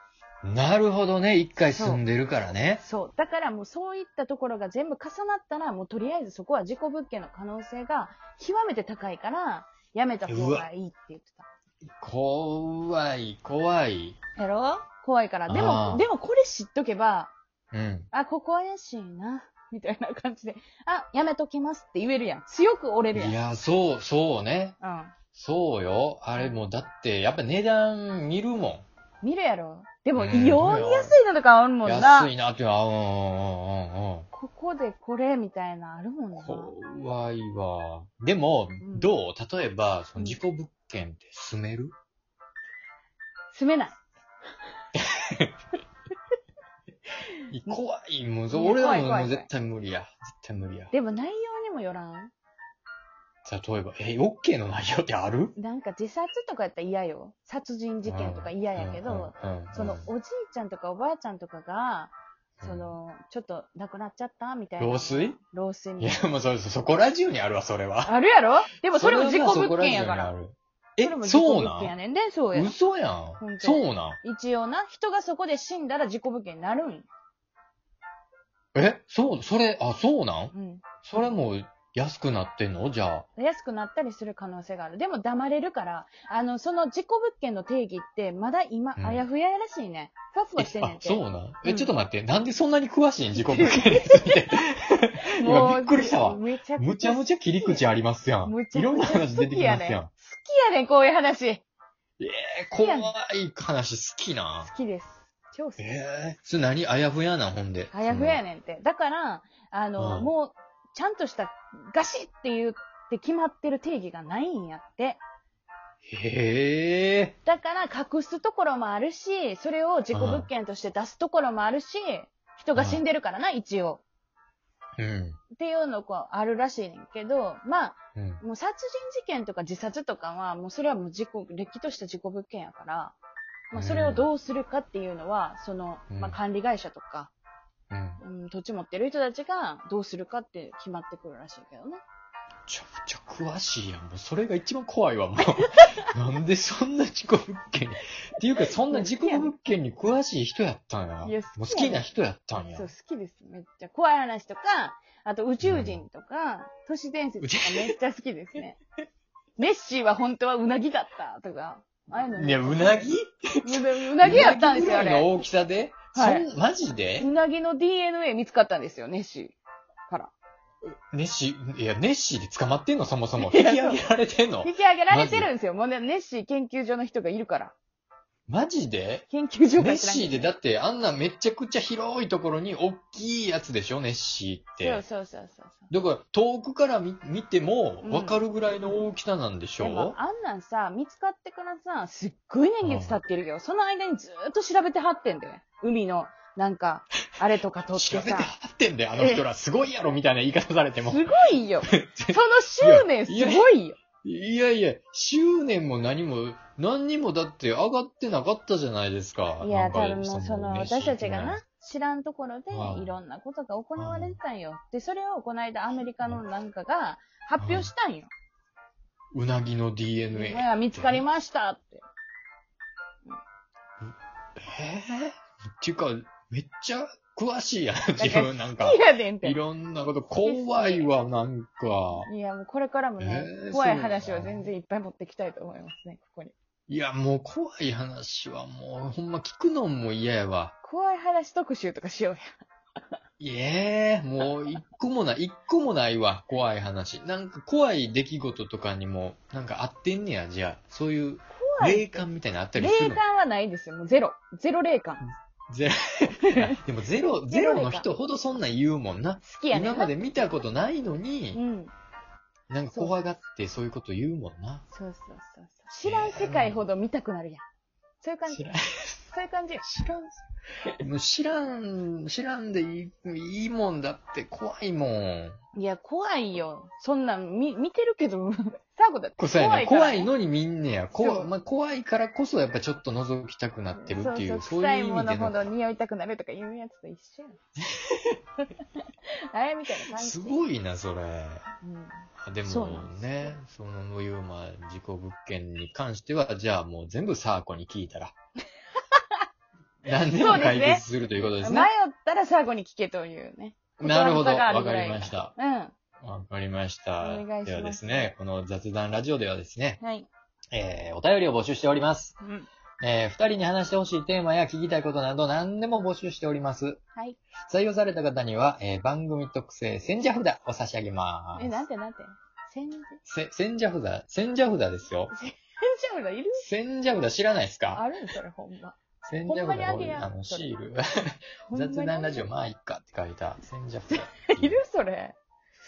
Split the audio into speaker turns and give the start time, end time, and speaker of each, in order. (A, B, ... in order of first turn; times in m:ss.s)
0:00.4-0:02.8 A
0:01.7-0:02.0 B
0:02.8-0:11.5 B
0:10.3-0:10.7 A
0:12.0-0:14.2 A
0:14.4-0:17.3 B
0:15.5-0:16.0 A
0:17.7-0:18.1 A
0:18.1-0:23.3 B
0:23.1-0:24.8 A
0:24.8-0:25.1 B
0:25.3-0:28.8 A
0:29.2-0:32.3 B
0:30.2-0:31.2 A
0:31.8-0:34.3 A
0:34.3-0:36.7 B
0:36.4-0:41.9 A
0:38.8-0:39.1 B
0:43.5-0:44.0 B
0:44.9-0:45.5 A
0:47.5-0:50.9 A
0:48.5-0:49.5 B
0:50.9-0:52.3 B
0:53.4-0:55.5 A
0:55.5-1:06.2 B
0:58.0-1:00.1 A
1:02.6-1:03.0 A
1:04.8-1:05.4 A
1:06.0-1:08.1 A
1:08.0-1:10.3 B
1:08.9-1:11.9 A
1:11.0-1:12.7 B
1:12.5-1:14.2 A
1:13.4-1:17.1 B
1:18.7-1:23.2 A
1:20.5-1:20.8 B
1:23.4-1:31.9 B
1:29.0-1:29.2 A
1:30.6-1:40.1 A
1:33.3-1:34.6 B
1:35.4-1:37.8 B
1:38.4-1:41.6 B
1:42.2-1:44.7 A
1:42.8-1:43.1 B
1:44.6-1:45.8 B
1:45.8-1:48.4 A
1:47.9-1:55.2 B
1:50.0-1:50.3 A
1:56.1-1:57.3 A
1:57.4-2:04.0 B
2:00.1-2:00.5 A
2:02.7-2:03.0 A
2:05.0-2:05.4 A
2:05.5-2:13.2 B
2:08.1-2:08.4 A
2:13.7-2:17.3 B
2:13.7-2:14.3 A
2:16.1-2:16.4 A
2:17.9-2:18.2 A
2:18.2-2:22.0 B
2:22.7-2:32.9 A
2:25.7-2:26.0 B
2:28.6-2:29.5 B
2:31.2-2:32.1 B
2:32.7-2:38.8 B
2:35.6-2:36.0 A
2:37.4-2:37.9 A
2:39.6-2:45.4 B
2:42.3-2:47.3 A
2:46.1-2:46.4 B
2:47.2-2:50.3 B
2:51.1-2:55.5 A
2:53.4-2:54.0 B
2:54.6-2:57.7 B
2:58.5-2:59.2 A
2:59.3-3:00.5 B
2:59.8-3:05.0 A
3:04.8-3:05.9 B
3:05.9-3:10.2 A
3:08.0-3:08.4 B
3:09.8-3:18.5 B
3:12.8-3:13.2 A
3:17.9-3:21.3 A
3:19.2-3:19.4 B
3:21.0-3:24.0 B
3:21.9-3:23.7 A
3:24.2-3:31.6 A
3:29.6-3:38.3 B
3:32.7-3:33.2 A
3:34.0-3:34.4 A
3:37.6-3:37.9 A
3:39.3-3:41.2 A
3:40.3-3:42.0 B
3:44.0-3:52.3 A
3:48.2-3:49.6 B
3:50.3-3:51.1 B
3:52.1-3:56.5 B
3:53.2-3:54.7 A
3:56.9-4:00.7 A
4:00.8-4:02.4 B
4:03.4-4:13.2 A
4:11.5-4:15.2 B
4:15.7-4:21.6 A
4:16.4-4:16.8 B
4:17.5-4:18.1 B
4:19.4-4:20.2 B
4:21.5-4:21.9 B
4:22.7-4:24.8 A
4:24.9-4:27.6 B
4:26.0-4:26.9 A
4:28.2-4:28.7 B
4:28.5-4:29.3 A
4:29.3-4:29.8 B
4:29.8-4:30.4 A
4:31.0-4:35.6 A
4:35.7-4:40.3 B
4:39.4-4:45.7 A
4:41.1-4:41.5 B
4:43.9-4:47.6 B
4:47.9-4:48.4 A
4:49.0-4:50.6 B
4:50.1-4:51.7 A
4:51.8-4:53.6 B
4:52.4-4:58.3 A
5:00.0-5:01.9 A
5:00.1-5:05.9 B
5:04.0-5:05.5 A
5:06.2-5:10.0 A
5:07.2-5:08.3 B
5:10.0-5:10.3 B
5:10.7-5:12.4 A
5:12.4-5:12.7 B
5:13.0-5:17.0 A
5:17.7-5:21.8 A
5:21.6-5:23.2 B
5:23.2-5:25.3 A
5:25.3-5:26.6 B
5:26.6-5:28.0 A
5:27.9-5:30.6 B
5:29.2-5:34.8 A
5:31.7-5:32.4 B
5:34.1-5:35.4 B